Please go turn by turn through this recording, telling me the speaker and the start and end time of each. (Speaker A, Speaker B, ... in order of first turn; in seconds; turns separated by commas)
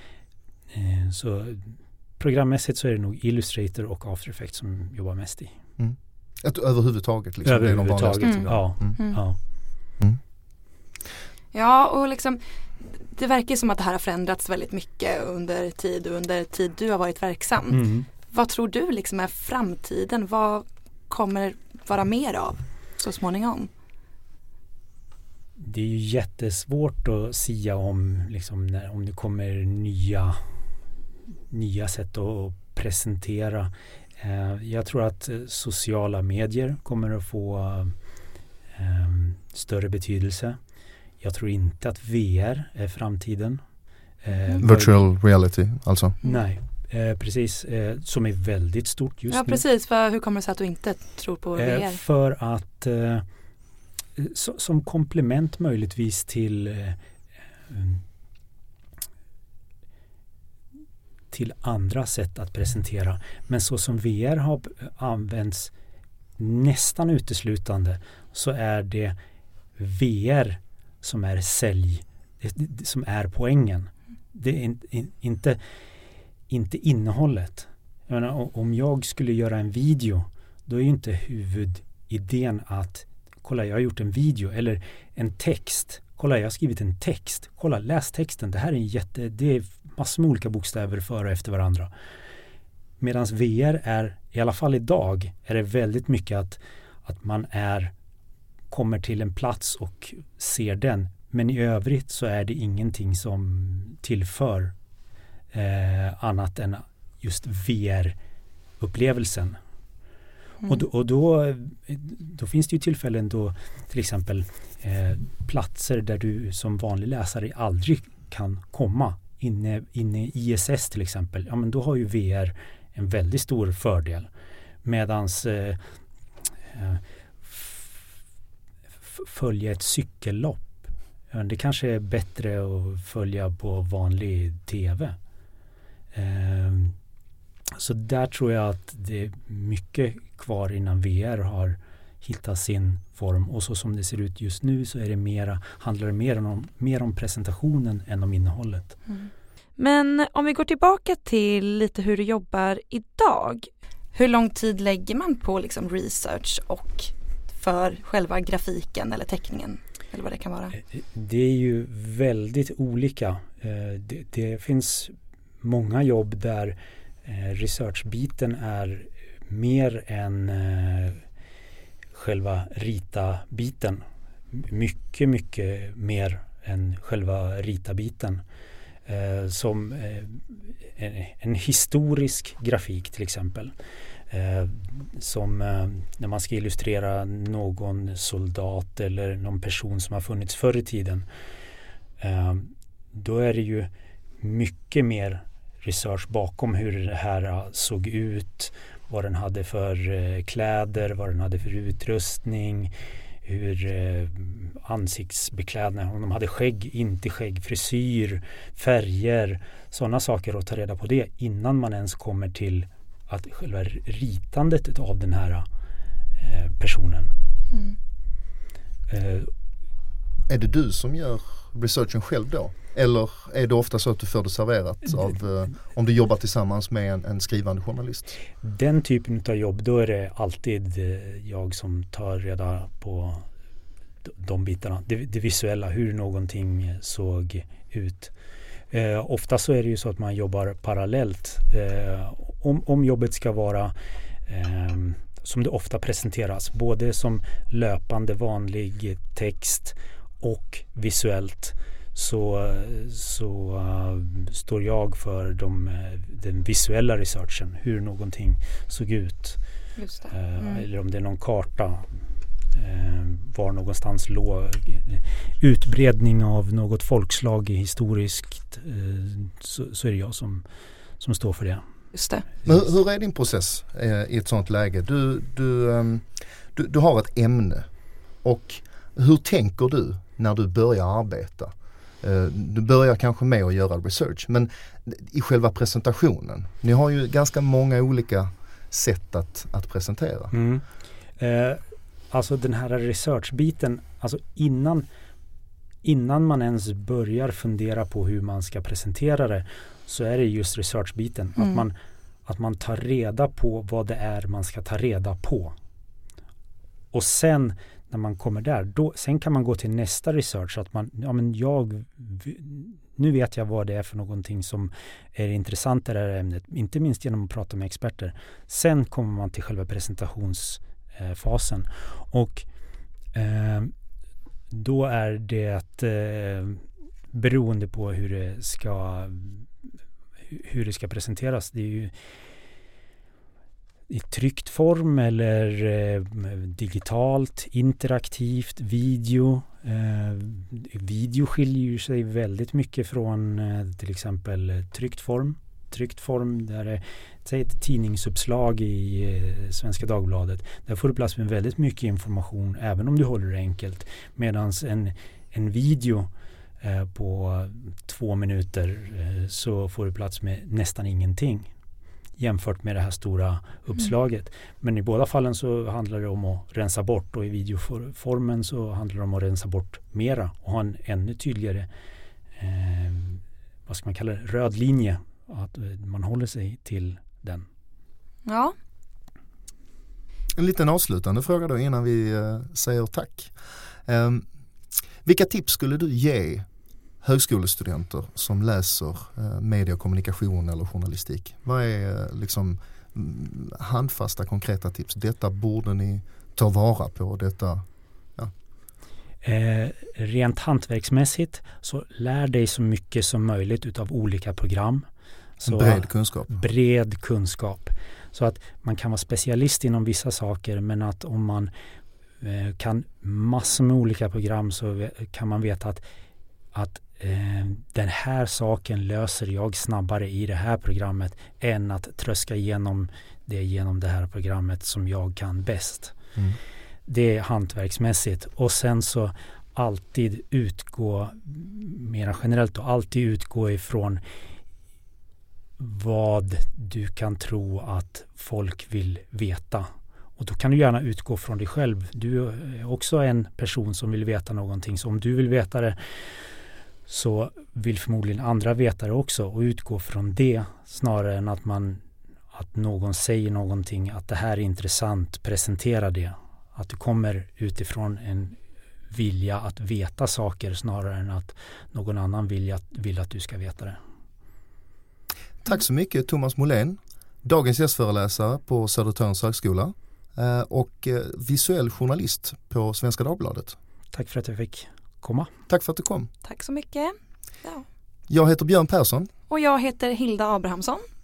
Speaker A: 0.7-5.6, Speaker B: 5.8-9.0, Speaker A: 7.4-9.4, Speaker C: 8.2-9.2, Speaker C: 11.5-23.7, Speaker A: 17.7-18.1, Speaker A: 25.6-30.4, Speaker A: 31.5-37.9, Speaker A: 38.7-40.6, Speaker A: 41.2-43.6, Speaker A: 44.2-45.0, Speaker C: 44.3-44.6, Speaker B: 44.6-46.2, Speaker A: 46.2-49.6, Speaker C: 49.3-52.0, Speaker A: 51.5-53.2, Speaker A: 54.1-57.0, Speaker A: 57.7-58.0, Speaker A: 61.3-65.7, Speaker A: 66.4-69.2, Speaker A: 69.8-75.6, Speaker A: 76.5-91.9, Speaker A: 93.0-97.9, Speaker A: 98.7-104.7, Speaker A: 105.5-108.2, Speaker A: 108.8-109.6, Speaker A: 110.7-124.3, Speaker A: 124.8-125.8, Speaker A: 126.7-127.9, Speaker A: 129.1-135.2, Speaker A: 136.1-136.9, Speaker A: 137.8-148.9, Speaker C: 149.1-160.7, Speaker A: 160.8-171.2, Speaker A: 172.1-178.4, Speaker A: 179.1-183.7, Speaker A: 184.3-191.2, Speaker A: 192.2-202.9, Speaker A: 203.4-215.7, Speaker A: 216.4-217.3, Speaker A: 219.1-219.5, Speaker B: 220.5-228.4, Speaker A: 228.6-233.5, Speaker A: 234.2-238.3, Speaker A: 238.9-243.9, Speaker A: 244.4-259.6, Speaker C: 260.0-260.8, Speaker A: 260.3-262.1, Speaker A: 262.7-270.6, Speaker A: 271.2-271.8, Speaker C: 272.1-272.4, Speaker B: 272.6-277.9, Speaker B: 278.4-290.5, Speaker A: 290.5-290.8, Speaker A: 291.4-295.1, Speaker A: 296.0-301.9, Speaker A: 302.4-305.7, Speaker A: 307.1-322.6, Speaker A: 323.3-323.9, Speaker A: 324.7-329.7, Speaker A: 330.5-332.1, Speaker A: 334.1-356.3, Speaker A: 356.8-361.7, Speaker A: 362.4-371.9, Speaker A: 372.6-377.7, Speaker C: 378.4-378.7, Speaker B: 380.5-384.4, Speaker B: 385.2-386.7, Speaker B: 387.2-398.5, Speaker A: 399.4-405.1, Speaker A: 405.6-411.7, Speaker B: 405.6-406.5, Speaker A: 412.4-416.0, Speaker A: 416.7-426.1, Speaker A: 427.1-434.2, Speaker A: 435.8-446.0, Speaker A: 447.1-452.0, Speaker A: 452.5-458.6, Speaker A: 459.1-464.0, Speaker B: 465.6-473.8, Speaker A: 474.1-475.5, Speaker B: 475.7-476.3, Speaker C: 476.4-477.9, Speaker B: 478.3-479.3, Speaker C: 479.5-481.0